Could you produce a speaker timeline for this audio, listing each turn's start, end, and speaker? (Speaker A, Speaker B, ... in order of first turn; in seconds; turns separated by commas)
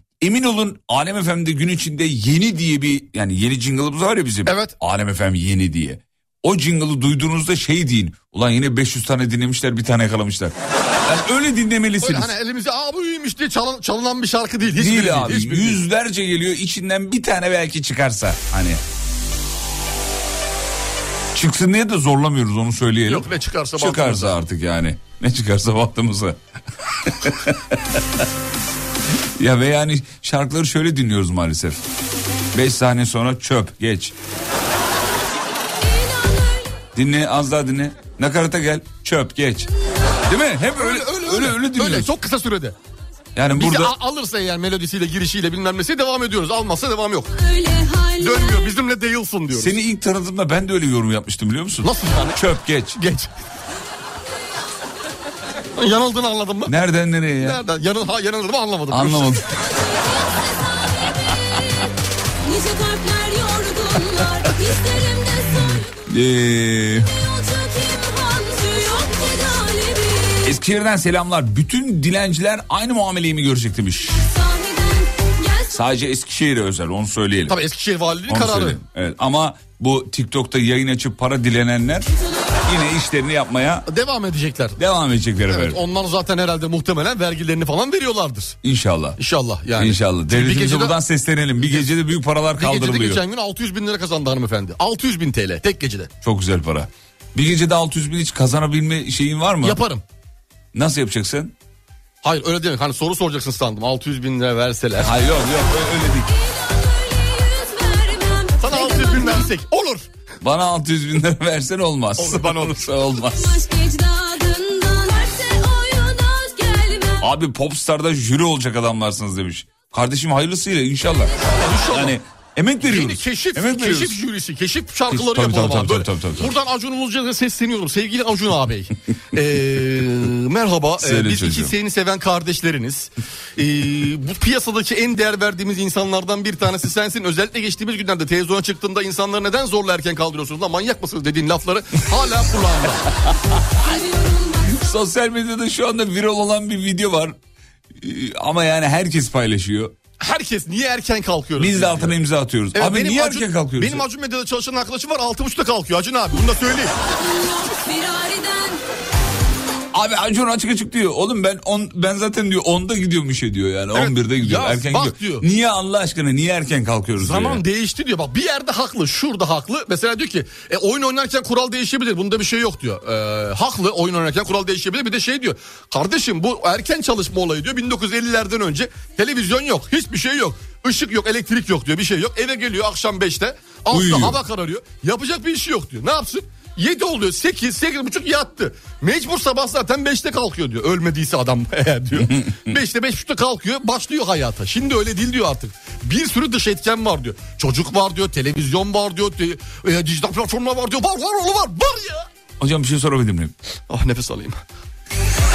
Speaker A: 0.2-12.3, Speaker B: 4.5-4.8, Speaker B: 12.0-15.8, Speaker A: 14.8-18.8, Speaker A: 21.3-26.4, Speaker B: 23.1-24.4, Speaker A: 27.0-27.6, Speaker A: 29.4-31.8, Speaker A: 32.5-34.1, Speaker A: 37.0-39.7, Speaker A: 40.3-42.1, Speaker B: 40.8-42.8, Speaker A: 43.4-43.9, Speaker B: 43.5-47.3, Speaker C: 47.3-48.8, Speaker B: 48.2-49.8, Speaker A: 49.5-53.0, Speaker B: 51.8-52.4, Speaker B: 53.0-53.3, Speaker B: 55.8-56.7, Speaker A: 56.7-57.6, Speaker B: 57.4-59.5, Speaker A: 58.9-59.5, Speaker C: 59.6-61.6, Speaker C: 62.4-65.9, Speaker A: 66.1-67.1, Speaker C: 67.1-70.6, Speaker A: 70.4-74.2, Speaker C: 74.2-75.8, Speaker A: 75.7-77.6, Speaker B: 77.5-78.8, Speaker A: 78.3-82.1, Speaker A: 82.7-83.9, Speaker B: 83.9-84.8, Speaker A: 84.8-85.8, Speaker B: 85.5-88.6, Speaker A: 88.6-89.2, Speaker B: 89.2-91.0, Speaker A: 89.8-93.2, Speaker B: 91.6-91.9, Speaker B: 92.6-96.1, Speaker A: 96.2-99.8, Speaker B: 99.6-100.0, Speaker A: 100.7-101.5, Speaker B: 102.2-105.2, Speaker A: 105.0-106.3, Speaker C: 106.2-109.5, Speaker B: 108.6-110.1, Speaker A: 110.4-113.6, Speaker B: 112.2-112.9, Speaker C: 113.3-117.3, Speaker A: 117.2-124.2, Speaker B: 121.4-122.2, Speaker B: 122.8-143.1, Speaker A: 125.1-126.5, Speaker A: 131.0-131.7, Speaker C: 143.8-144.8, Speaker A: 144.7-147.4, Speaker A: 148.0-149.9, Speaker B: 150.2-152.2, Speaker A: 151.6-154.1, Speaker B: 152.7-156.9, Speaker C: 157.1-158.8, Speaker A: 159.9-167.6, Speaker B: 163.9-165.5, Speaker B: 167.2-202.3, Speaker A: 183.9-184.4, Speaker A: 192.2-192.8, Speaker A: 202.6-203.5, Speaker B: 203.9-204.6